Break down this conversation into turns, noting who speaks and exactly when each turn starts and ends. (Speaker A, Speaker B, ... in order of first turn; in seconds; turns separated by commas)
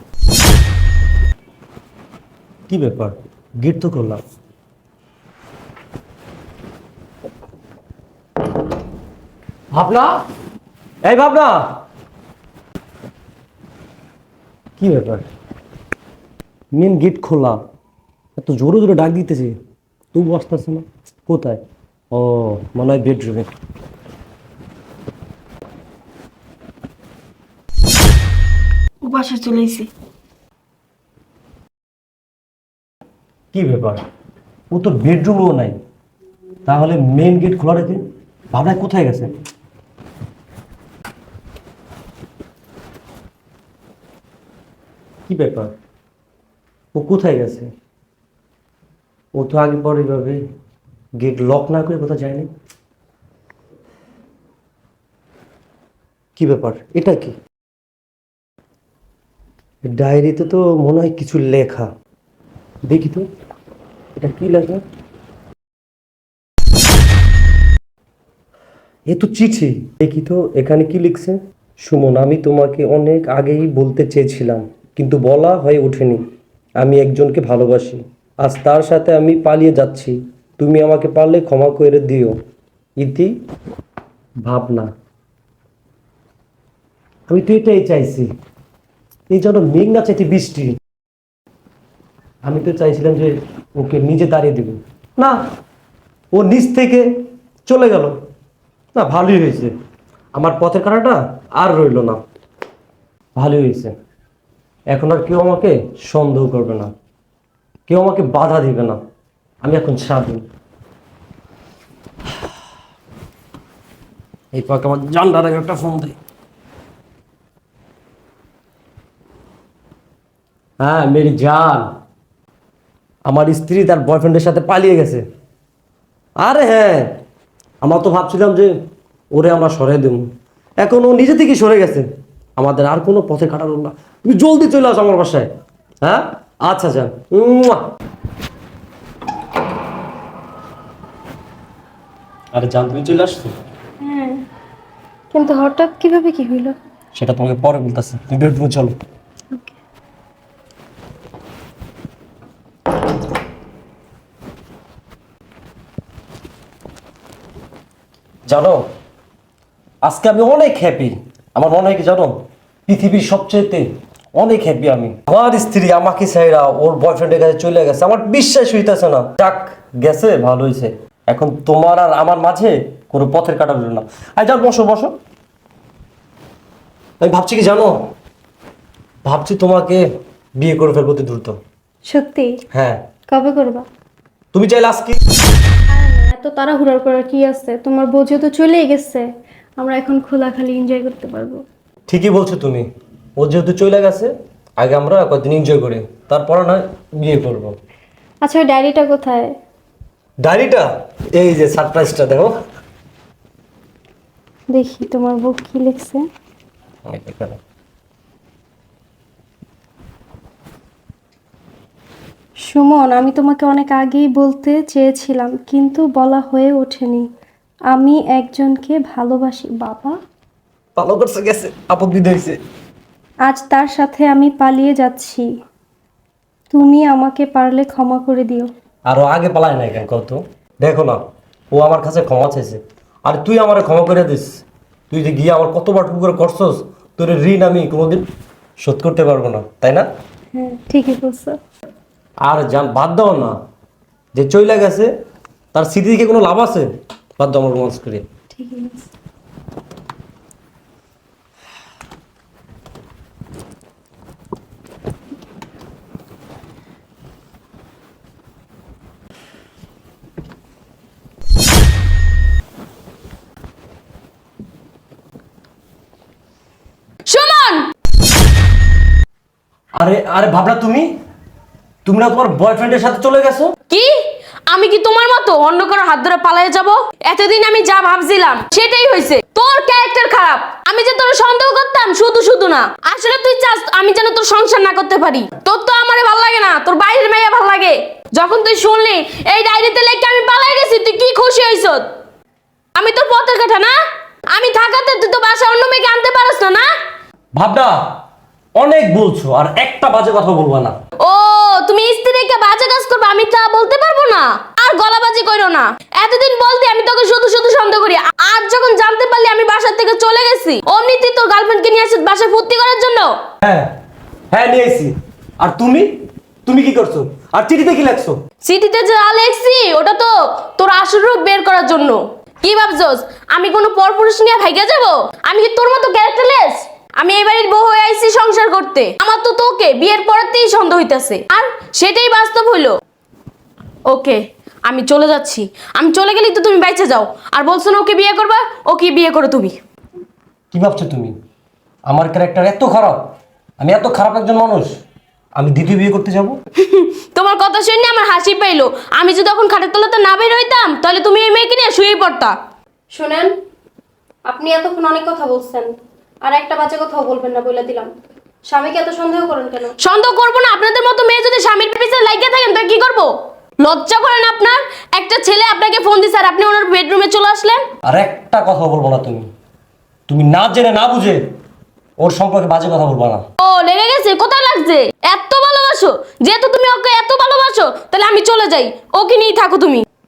Speaker A: 2.7-4.2, Speaker A: 9.7-10.2, Speaker A: 11.0-11.8, Speaker A: 14.8-15.2, Speaker A: 16.7-17.6, Speaker A: 18.4-19.5, Speaker A: 20.1-23.5, Speaker B: 29.0-29.9, Speaker A: 33.5-34.0, Speaker A: 34.7-35.8, Speaker A: 36.6-39.3, Speaker A: 45.3-45.7, Speaker A: 46.9-47.7, Speaker A: 49.3-50.4, Speaker A: 51.2-52.5, Speaker A: 56.4-57.4, Speaker A: 59.9-61.9, Speaker A: 62.9-63.3, Speaker A: 64.2-64.8, Speaker A: 69.1-76.2, Speaker A: 76.8-82.3, Speaker A: 83.0-83.3, Speaker A: 84.4-84.9, Speaker A: 87.3-88.3, Speaker A: 89.3-90.7, Speaker A: 92.4-95.4, Speaker A: 96.3-97.1, Speaker A: 97.7-98.1, Speaker A: 98.9-99.7, Speaker A: 100.3-102.2, Speaker A: 103.3-103.9, Speaker A: 104.9-106.9, Speaker A: 107.9-109.0, Speaker A: 109.6-110.4, Speaker A: 114.5-116.2, Speaker A: 120.8-121.8, Speaker A: 123.2-125.2, Speaker A: 126.4-127.2, Speaker A: 127.8-128.7, Speaker A: 129.3-130.3, Speaker A: 130.8-135.5, Speaker A: 136.0-137.8, Speaker A: 142.5-143.5, Speaker C: 144.0-144.4, Speaker C: 145.3-146.8, Speaker A: 147.2-148.9, Speaker A: 158.5-158.8, Speaker A: 160.0-175.1, Speaker A: 177.2-178.1, Speaker A: 179.2-180.0, Speaker A: 180.6-181.6, Speaker C: 182.1-182.5, Speaker A: 182.7-183.0, Speaker C: 183.3-183.8, Speaker A: 184.5-185.2, Speaker C: 185.9-189.2, Speaker C: 189.8-191.6, Speaker A: 192.1-197.8, Speaker C: 198.4-199.5, Speaker A: 200.4-202.5, Speaker C: 204.7-206.2, Speaker A: 207.1-207.6, Speaker C: 212.7-217.3, Speaker C: 217.9-220.2, Speaker A: 220.9-222.6, Speaker C: 223.4-225.5, Speaker C: 226.7-228.7, Speaker A: 229.1-231.2, Speaker A: 231.7-238.3, Speaker A: 238.8-240.1, Speaker C: 240.5-241.6, Speaker A: 242.4-243.6, Speaker A: 244.3-245.1, Speaker A: 245.7-246.9, Speaker A: 247.4-248.2, Speaker C: 248.5-249.1, Speaker B: 267.2-267.9, Speaker A: 270.0-271.1, Speaker A: 272.0-273.7, Speaker B: 273.9-292.0, Speaker B: 292.9-293.9, Speaker B: 294.5-296.9, Speaker A: 297.5-298.0, Speaker A: 298.8-300.9, Speaker B: 301.2-313.4, Speaker A: 313.6-313.9, Speaker A: 314.5-316.1, Speaker A: 316.6-318.4, Speaker B: 318.6-332.9, Speaker B: 334.1-339.8, Speaker A: 340.7-341.3, Speaker A: 342.1-343.2, Speaker A: 343.8-344.9, Speaker A: 345.6-346.6, Speaker B: 346.8-352.6, Speaker C: 353.1-353.5, Speaker C: 354.5-355.9, Speaker C: 356.4-358.1, Speaker C: 358.6-359.9, Speaker B: 360.0-363.3, Speaker B: 363.8-367.8, Speaker A: 368.1-369.5, Speaker A: 370.3-371.4, Speaker A: 372.2-373.4, Speaker B: 373.6-380.0